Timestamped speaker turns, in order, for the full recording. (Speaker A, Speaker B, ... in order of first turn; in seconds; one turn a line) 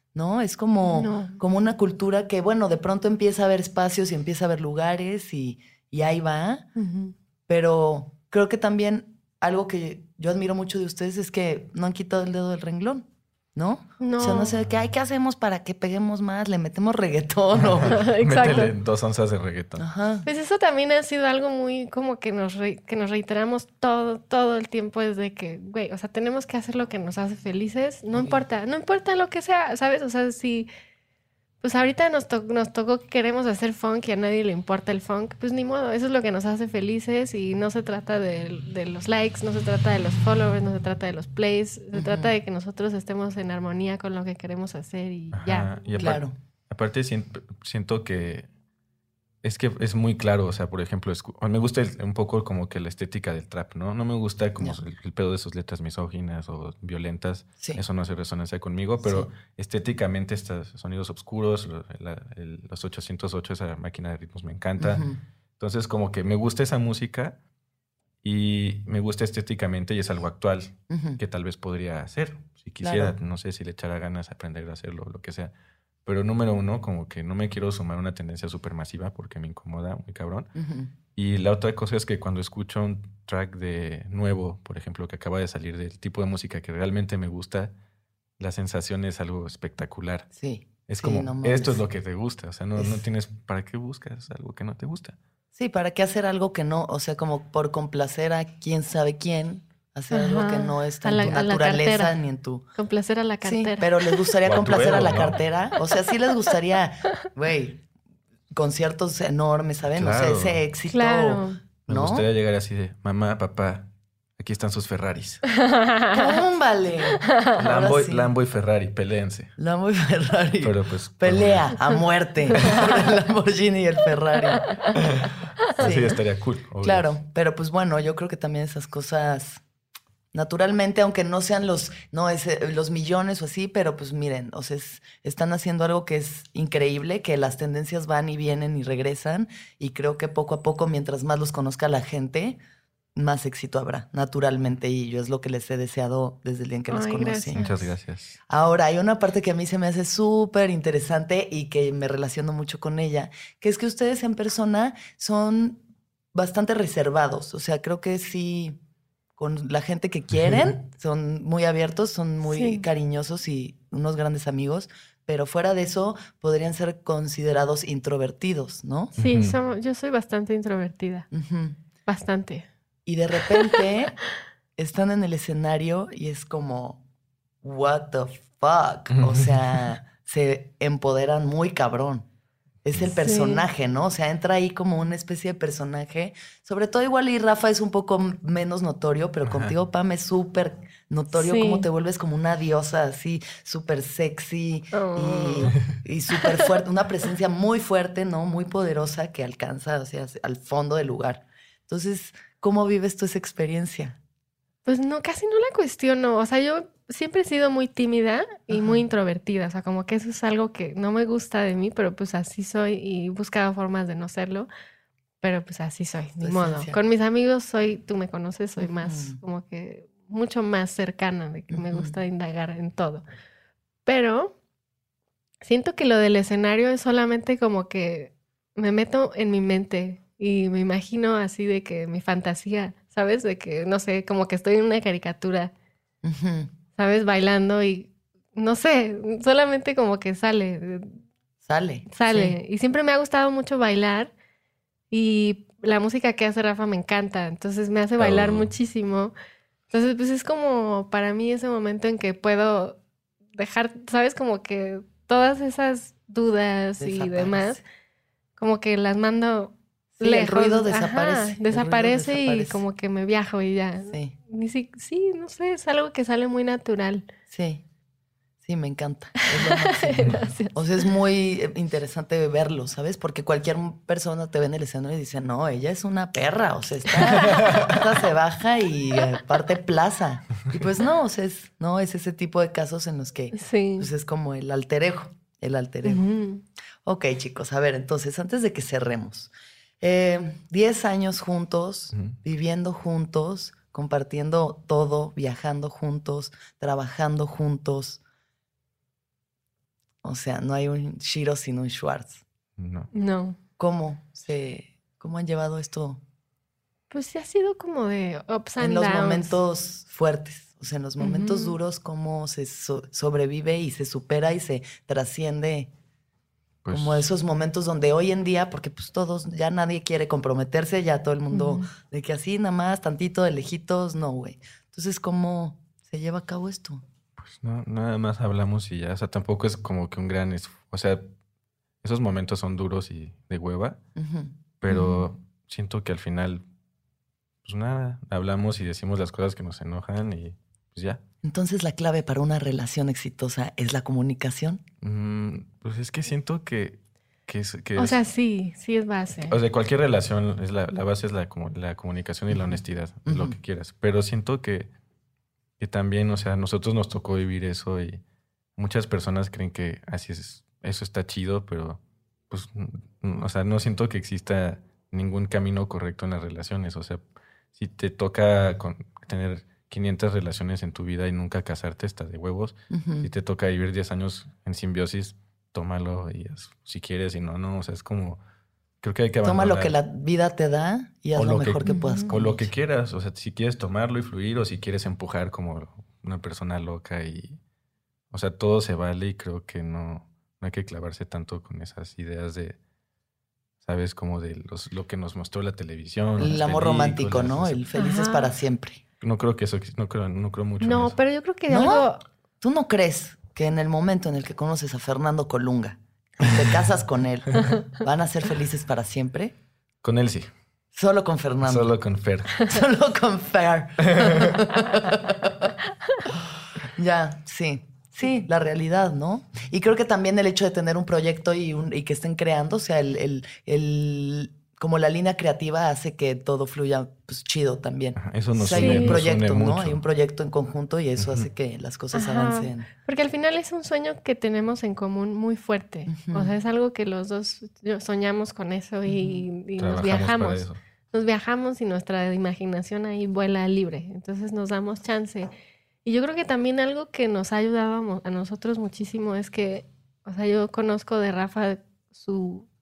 Speaker A: 0.1-6.7
Speaker B: 0.8-1.4
Speaker B: 6.8-7.1
Speaker A: 7.5-18.0
Speaker B: 14.0-14.5
Speaker C: 17.5-19.9
Speaker B: 17.9-18.7
Speaker A: 19.8-20.3
Speaker B: 20.2-30.7
Speaker A: 28.1-28.4
Speaker B: 31.6-46.1
Speaker A: 41.9-42.4
Speaker C: 45.3-48.5
Speaker A: 46.0-46.3
Speaker C: 49.4-65.1
Speaker A: 59.0-59.3
Speaker A: 64.8-65.2
Speaker C: 65.6-67.4
Speaker C: 68.2-75.5
Speaker A: 70.9-71.2
Speaker A: 72.8-73.2
Speaker C: 76.0-80.5
Speaker A: 80.6-80.9
Speaker C: 81.2-87.7
Speaker C: 88.4-90.3
Speaker A: 90.3-91.8
Speaker C: 90.9-95.2
Speaker A: 92.8-93.0
Speaker A: 95.5-102.7
Speaker B: 100.1-102.2
Speaker B: 102.8-104.3
Speaker A: 103.4-107.8
Speaker C: 104.5-105.4
Speaker A: 108.5-112.3
Speaker C: 109.9-110.7
Speaker B: 110.9-111.6
Speaker C: 111.9-115.4
Speaker B: 115.5-116.4
Speaker A: 116.1-118.4
Speaker B: 117.2-117.6
Speaker C: 117.6-119.5
Speaker A: 119.6-125.1
Speaker C: 120.6-121.8
Speaker C: 122.5-122.9
Speaker B: 124.5-125.0
Speaker C: 125.0-127.1
Speaker A: 125.8-126.2
Speaker A: 126.8-129.6
Speaker A: 130.3-142.6
Speaker A: 143.2-147.6
Speaker B: 146.9-147.9
Speaker C: 147.6-148.4
Speaker A: 148.5-155.8
Speaker A: 156.3-158.8
Speaker A: 159.4-169.1
Speaker B: 162.4-162.9
Speaker C: 169.2-169.6
Speaker B: 169.2-171.3
Speaker A: 171.3-171.8
Speaker B: 172.1-172.7
Speaker A: 173.1-174.2
Speaker A: 174.8-177.0
Speaker A: 177.6-182.3
Speaker C: 179.1-179.9
Speaker A: 182.8-204.2
Speaker B: 183.1-183.7
Speaker B: 191.3-191.8
Speaker B: 194.9-195.8
Speaker B: 204.8-214.7
Speaker A: 208.7-209.1
Speaker B: 215.4-223.2
Speaker A: 216.4-217.0
Speaker A: 218.8-219.4
Speaker A: 221.7-222.2
Speaker B: 224.1-224.5
Speaker B: 225.6-235.7
Speaker A: 236.2-236.7
Speaker B: 236.9-241.2
Speaker A: 241.6-242.6
Speaker B: 242.1-244.3
Speaker B: 245.1-249.3
Speaker C: 248.2-248.7
Speaker B: 249.9-253.0
Speaker B: 253.6-257.8
Speaker A: 257.0-257.8
Speaker B: 258.6-267.3
Speaker A: 260.2-262.8
Speaker A: 264.1-264.4
Speaker A: 267.5-267.8
Speaker A: 268.6-286.3
Speaker B: 269.4-270.8
Speaker B: 283.5-284.1
Speaker B: 286.1-286.6
Speaker A: 287.0-298.2
Speaker A: 300.2-302.4
Speaker C: 302.8-303.1
Speaker B: 303.1-303.6
Speaker A: 303.8-306.2
Speaker B: 307.1-309.6
Speaker A: 308.8-315.9
Speaker B: 311.2-311.8
Speaker C: 316.8-317.3
Speaker A: 316.9-327.0
Speaker B: 321.5-321.9
Speaker C: 327.4-331.3
Speaker C: 332.0-334.0
Speaker A: 334.2-335.3
Speaker C: 334.8-336.6
Speaker C: 337.6-341.2
Speaker A: 341.4-344.8
Speaker C: 345.0-348.2
Speaker B: 348.0-349.6
Speaker C: 349.5-354.9
Speaker A: 352.5-353.6
Speaker C: 355.8-358.2
Speaker C: 358.8-367.2
Speaker C: 367.7-378.4
Speaker A: 372.9-373.3
Speaker C: 379.0-379.9
Speaker A: 379.4-382.7
Speaker C: 381.4-387.6
Speaker B: 381.8-382.3
Speaker C: 388.3-392.8
Speaker C: 393.8-397.8
Speaker A: 396.4-399.0
Speaker B: 397.9-398.5
Speaker C: 399.2-401.2
Speaker B: 400.8-402.2
Speaker A: 401.7-402.1
Speaker A: 402.6-409.6
Speaker C: 410.0-410.5
Speaker A: 410.9-411.9
Speaker C: 411.6-412.6
Speaker A: 412.6-415.7
Speaker C: 414.0-414.6
Speaker A: 416.8-432.9
Speaker C: 428.2-430.0
Speaker B: 428.7-429.2
Speaker C: 431.2-431.5
Speaker B: 432.1-445.5
Speaker A: 436.1-436.5
Speaker A: 439.1-439.4
Speaker C: 439.8-440.8
Speaker B: 446.0-452.7